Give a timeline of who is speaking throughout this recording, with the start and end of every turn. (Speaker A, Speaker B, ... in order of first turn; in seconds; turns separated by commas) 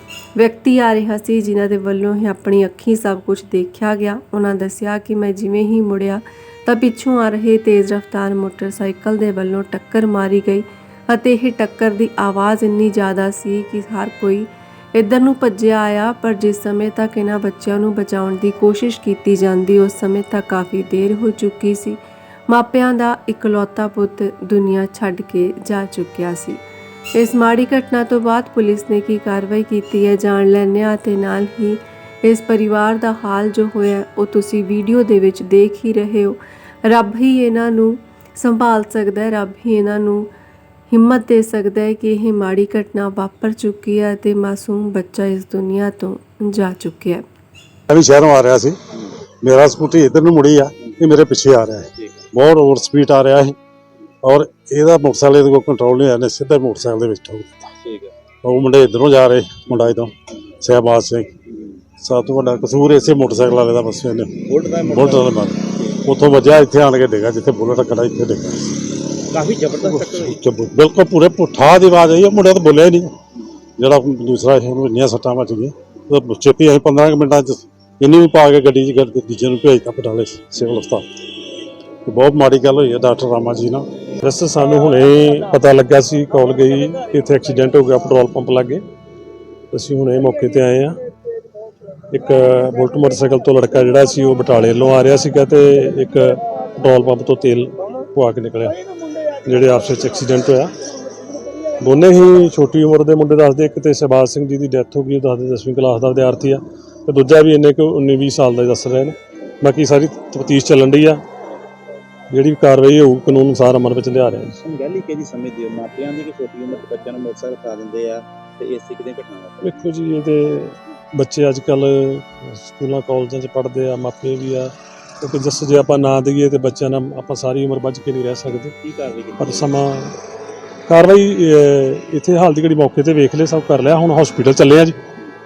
Speaker A: 0.4-26.6, Speaker A: 27.1-40.3, Speaker A: 40.9-47.2, Speaker B: 47.9-48.8, Speaker B: 49.4-53.5, Speaker B: 54.2-57.7, Speaker C: 57.8-58.1, Speaker B: 58.4-61.4, Speaker B: 62.0-68.8, Speaker C: 64.5-66.0, Speaker C: 69.3-70.4, Speaker B: 69.8-73.1, Speaker B: 73.8-81.0, Speaker B: 82.0-83.8, Speaker D: 84.2-88.8, Speaker D: 89.7-91.0, Speaker D: 92.1-98.8, Speaker D: 99.4-100.7, Speaker D: 101.8-111.2, Speaker D: 112.3-114.5, Speaker C: 114.5-119.8, Speaker D: 119.6-128.7, Speaker C: 128.8-129.7, Speaker D: 129.4-130.2, Speaker D: 130.9-134.9